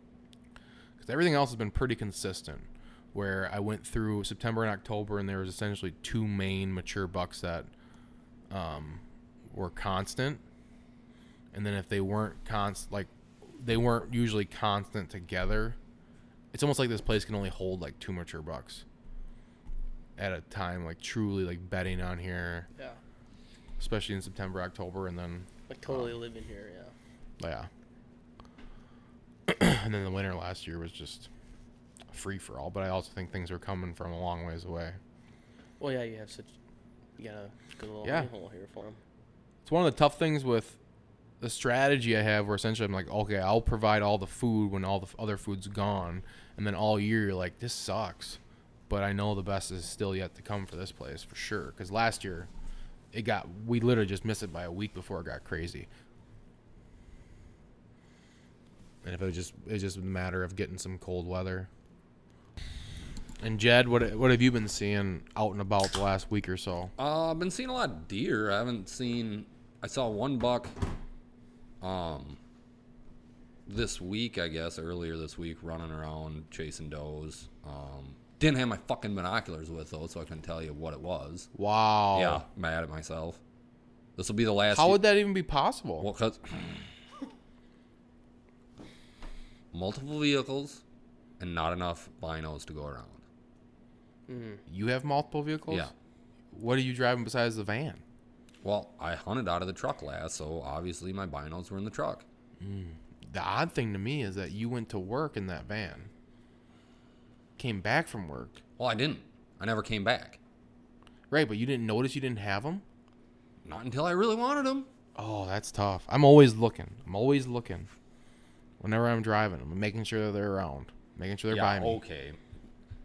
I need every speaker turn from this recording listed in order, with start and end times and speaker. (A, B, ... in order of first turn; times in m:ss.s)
0:01.0-0:07.7 A
0:08.5-0:10.4 A
0:11.5-0:15.8 A
0:16.5-0:18.8 A
0:20.2-0:22.7 A
0:23.8-0:26.2 A
0:25.7-0:26.9 B
0:27.4-0:27.7 A
0:29.5-0:31.3 A
0:32.1-0:35.0 A
0:35.8-0:36.5 B
0:37.2-0:39.0 B
0:38.0-0:38.3 A
0:39.6-0:40.8 A
0:41.4-0:48.4 A
0:48.9-0:52.5 A
0:53.1-0:55.9 A
0:59.0-1:01.7 A
1:03.4-1:06.9 A
1:07.0-1:10.7 C
1:11.8-1:12.4 C
1:13.6-1:21.5 C
1:21.5-1:22.4 A
1:22.1-1:23.4 C
1:24.2-1:25.1 C
1:24.7-1:26.1 A
1:26.0-1:26.9 C
1:29.7-1:30.8 C
1:31.4-1:33.2 C
1:34.3-1:34.6 B
1:34.7-1:35.9 A
1:36.5-1:38.0 A
1:38.6-1:42.2 C
1:42.6-1:46.1 A
1:47.6-1:48.6 A
1:48.8-1:50.4 C
1:51.3-1:52.8 A
1:53.6-1:54.9 C
1:55.2-1:57.9 A
1:58.8-2:02.0 A
2:01.5-2:02.4 C